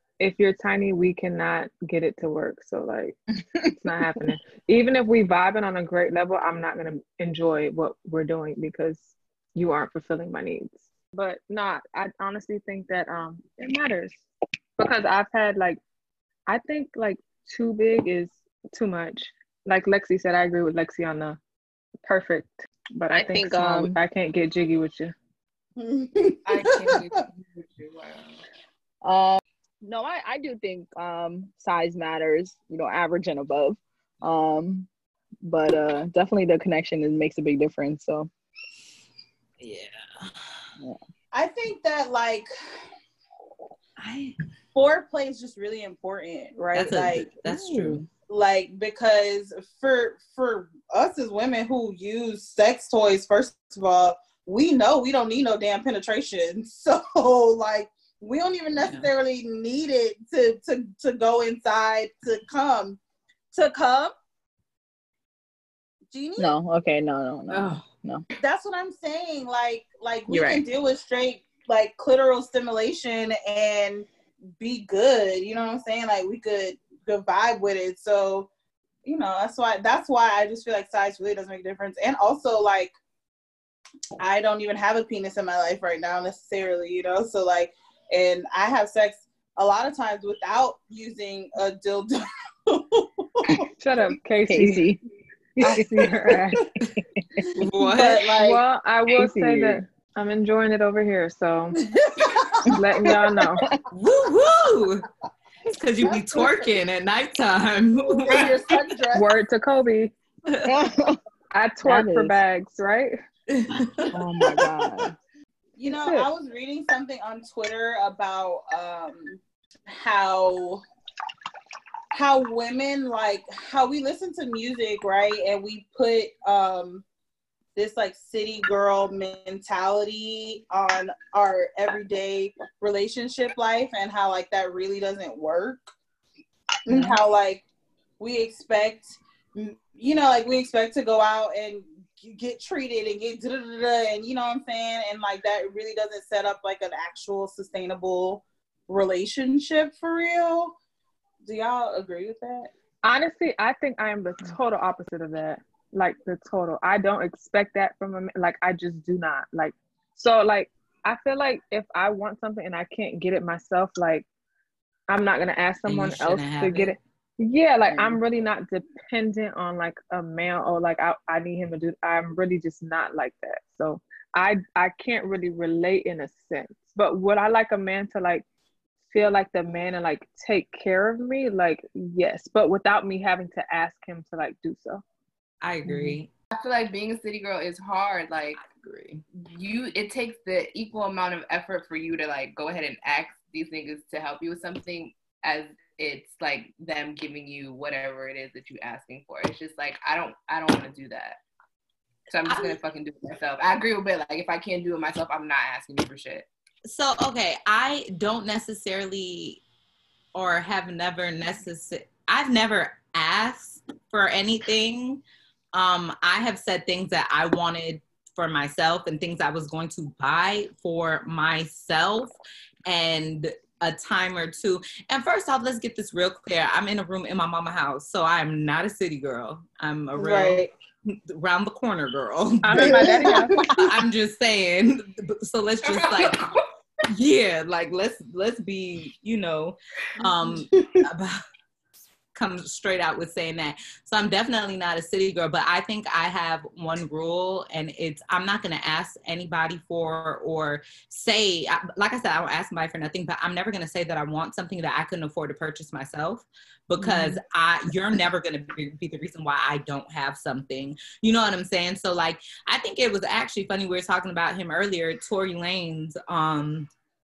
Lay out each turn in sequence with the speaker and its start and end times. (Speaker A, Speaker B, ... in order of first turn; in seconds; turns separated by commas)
Speaker A: 0.2-3.2, Speaker B: 3.5-4.3, Speaker A: 3.8-14.2, Speaker A: 14.8-15.8, Speaker A: 16.5-21.4, Speaker A: 22.0-25.1, Speaker B: 23.1-24.0, Speaker C: 25.8-27.0, Speaker D: 26.4-28.4, Speaker B: 29.0-34.9, Speaker B: 35.4-38.3, Speaker E: 39.6-40.5, Speaker C: 41.3-42.5, Speaker E: 44.0-44.4, Speaker C: 44.7-47.3, Speaker E: 46.7-48.0, Speaker B: 47.4-48.0, Speaker C: 48.3-63.0, Speaker E: 58.8-59.1, Speaker C: 63.5-64.1, Speaker C: 66.1-66.5, Speaker B: 66.4-68.2, Speaker E: 67.5-67.8, Speaker C: 68.4-74.1, Speaker B: 70.3-70.6, Speaker C: 74.6-78.5, Speaker C: 79.0-82.9, Speaker C: 84.2-93.6, Speaker A: 93.8-94.9, Speaker B: 94.5-95.0, Speaker A: 95.6-96.7, Speaker B: 95.6-97.5, Speaker E: 97.5-98.3, Speaker C: 97.8-98.6, Speaker A: 98.3-101.8, Speaker B: 99.1-99.8, Speaker C: 102.1-102.7, Speaker A: 102.7-103.7, Speaker E: 103.9-105.1, Speaker E: 105.7-108.5, Speaker C: 106.1-106.6, Speaker C: 108.2-109.3, Speaker A: 109.1-110.1, Speaker E: 110.5-110.7, Speaker B: 110.6-111.2, Speaker A: 111.5-113.1, Speaker B: 111.8-112.4, Speaker E: 113.5-114.1, Speaker B: 114.1-115.1, Speaker C: 115.8-120.8, Speaker A: 115.9-116.3, Speaker C: 122.1-127.0, Speaker C: 127.8-135.9, Speaker C: 136.9-137.6, Speaker C: 138.2-150.7, Speaker C: 151.4-152.7, Speaker A: 153.0-164.2, Speaker A: 165.1-178.4, Speaker E: 165.8-166.9, Speaker A: 179.1-185.0, Speaker E: 185.6-186.3, Speaker B: 185.9-186.2, Speaker D: 186.5-188.6, Speaker E: 188.6-189.2, Speaker D: 189.3-201.4, Speaker D: 202.3-206.5, Speaker E: 202.4-202.8, Speaker E: 206.8-209.6, Speaker E: 210.3-215.2, Speaker E: 215.7-222.3, Speaker E: 222.8-236.5, Speaker C: 230.2-230.7, Speaker A: 232.6-233.7, Speaker C: 232.9-233.5, Speaker D: 235.8-236.6, Speaker E: 237.1-241.4, Speaker C: 240.4-241.1, Speaker E: 242.3-266.9, Speaker B: 257.0-257.3